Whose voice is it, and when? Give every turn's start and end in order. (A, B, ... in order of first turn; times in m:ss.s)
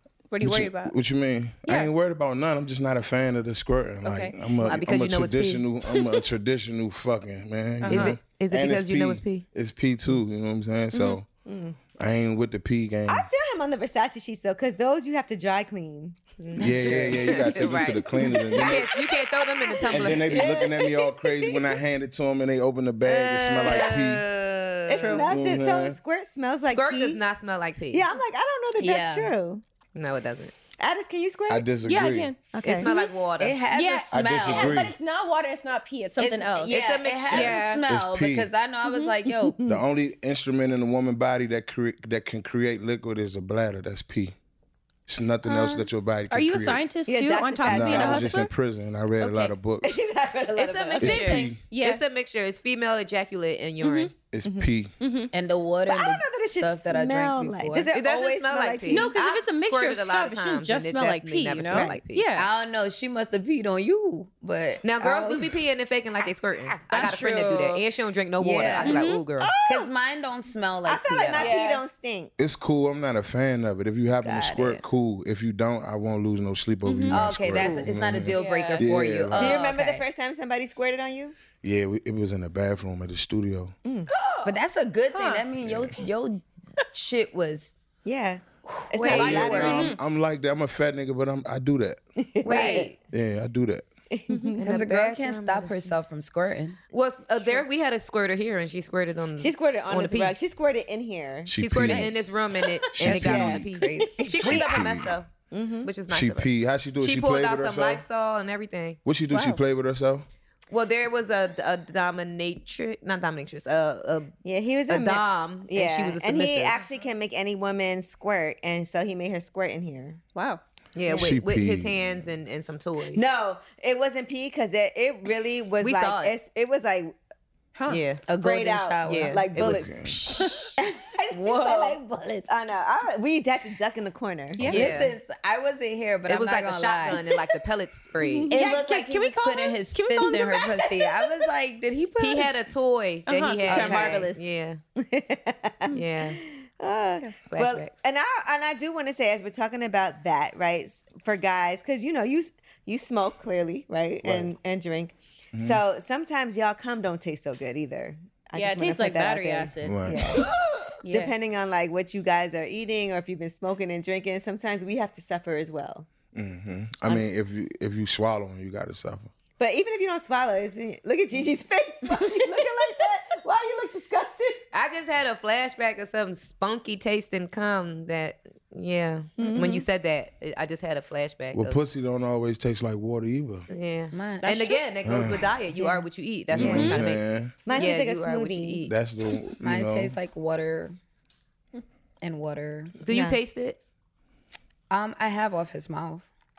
0:00.3-0:00.9 A
0:00.4-0:11.3 B
0:01.7-0:01.9 A
0:04.0-0:04.4 A
0:04.6-0:05.7 C
0:07.8-0:08.2 A
0:07.9-0:09.4 C
0:11.5-0:11.8 D
0:12.0-0:13.3 B
0:13.1-0:16.2 D
0:16.4-0:20.5 C
0:16.6-0:18.9 B
0:16.6-0:17.3 E
0:18.2-0:18.8 D
0:19.7-0:21.7 D
0:19.9-0:24.3 B
0:23.0-0:25.3 C
0:23.6-0:23.9 D
0:24.9-0:27.2 D
0:25.0-0:25.3 A
0:25.3-0:26.0 B
0:26.7-0:28.1 C
0:27.9-0:29.6 D
0:28.8-0:29.3 E
0:29.9-0:30.5 C
0:30.8-0:31.7 D
0:31.5-0:32.3 B
0:31.9-0:33.1 A
0:32.5-0:32.9 D
0:32.6-0:33.6 C
0:33.4-0:34.9 E
0:33.7-0:37.8 A
0:34.1-0:35.0 B
0:36.2-0:39.6 E
0:36.7-0:37.7 C
0:37.9-0:38.5 B
0:38.8-0:39.2 A
0:39.6-0:44.4 B
0:45.1-0:46.8 B
0:46.3-0:48.5 A
0:47.1-0:48.4 D
0:47.7-0:49.9 B
0:49.2-0:49.5 A
0:49.8-0:51.4 D
0:50.6-0:54.1 C
0:51.0-0:51.6 B
0:51.1-0:52.0 A
0:53.8-0:54.1 A
0:54.3-0:54.9 B
0:55.0-0:55.3 A
0:55.3-0:57.9 E
0:55.8-0:59.1 D
0:57.9-1:02.3 C
0:58.9-1:02.5 A
1:01.7-1:02.0 D
1:02.4-1:05.5 E
1:04.8-1:09.6 C
1:06.9-1:07.8 A
1:08.4-1:09.0 E
1:08.6-1:09.8 A
1:09.6-1:11.8 E
1:10.8-1:12.3 D
1:12.4-1:19.6 B
1:14.2-1:14.8 E
1:16.8-1:19.1 A
1:17.1-1:20.0 E
1:19.4-1:21.4 D
1:21.6-1:23.8 B
1:24.4-1:27.7 E
1:25.1-1:25.5 A
1:25.6-1:26.0 B
1:28.0-1:29.9 D
1:28.8-1:29.9 E
1:29.1-1:32.0 B
1:29.2-1:29.5 C
1:29.7-1:30.0 A
1:32.2-1:32.9 D
1:32.4-1:32.9 C
1:32.5-1:32.9 A
1:32.5-1:32.9 E
1:33.1-1:33.9 B
1:34.1-1:34.6 D
1:34.5-1:36.0 C
1:34.6-1:36.8 E
1:36.9-1:40.4 C
1:39.4-1:41.5 D
1:41.5-1:42.3 B
1:41.5-1:45.3 C
1:41.9-1:42.7 A
1:42.9-1:43.7 B
1:43.1-1:44.6 E
1:43.2-1:44.3 D
1:44.4-1:45.2 B
1:45.5-1:45.9 D
1:45.8-1:49.0 C
1:46.1-1:48.0 B
1:49.0-1:50.2 B
1:49.3-1:49.6 A
1:50.7-1:54.4 C
1:54.4-2:00.2 D
1:54.9-1:56.8 C
2:00.4-2:00.6 A
2:01.0-2:03.3 C
2:01.1-2:02.3 B
2:01.1-2:01.3 D
2:03.1-2:07.2 D
2:05.8-2:06.4 C
2:07.8-2:08.1 A
2:07.9-2:08.2 C
2:08.3-2:09.5 E
2:08.3-2:10.1 D
2:09.0-2:09.9 C
2:09.6-2:10.4 B
2:10.3-2:10.7 A
2:10.8-2:14.6 D
2:11.3-2:12.5 E
2:14.6-2:14.9 B
2:14.7-2:15.2 C
2:14.7-2:17.4 E
2:16.3-2:18.6 C
2:18.3-2:18.7 D
2:18.5-2:21.1 A
2:18.5-2:22.6 E
2:22.2-2:24.8 C
2:23.3-2:24.5 A
2:23.6-2:24.3 E
2:23.9-2:24.2 D
2:25.0-2:40.5 D
2:25.9-2:26.4 C
2:27.5-2:28.0 C
2:34.2-2:34.5 B
2:35.5-2:35.8 B
2:38.6-2:40.2 A
2:39.8-2:40.4 B
2:41.0-2:41.3 A
2:41.1-2:46.1 D
2:46.3-2:49.3 B
2:49.6-2:54.6 D
2:54.7-3:01.8 C
2:59.4-2:59.8 D
3:01.5-3:03.7 B
3:03.7-3:09.0 C
3:04.1-3:04.5 E
3:04.4-3:04.8 A
3:05.0-3:05.5 B
3:05.8-3:06.0 D
3:06.5-3:07.6 B
3:06.6-3:07.1 A
3:07.7-3:08.9 D
3:08.8-3:10.2 B
3:09.6-3:11.0 E
3:12.2-3:13.0 E
3:13.0-3:13.8 C
3:13.1-3:13.4 D
3:14.9-3:16.3 E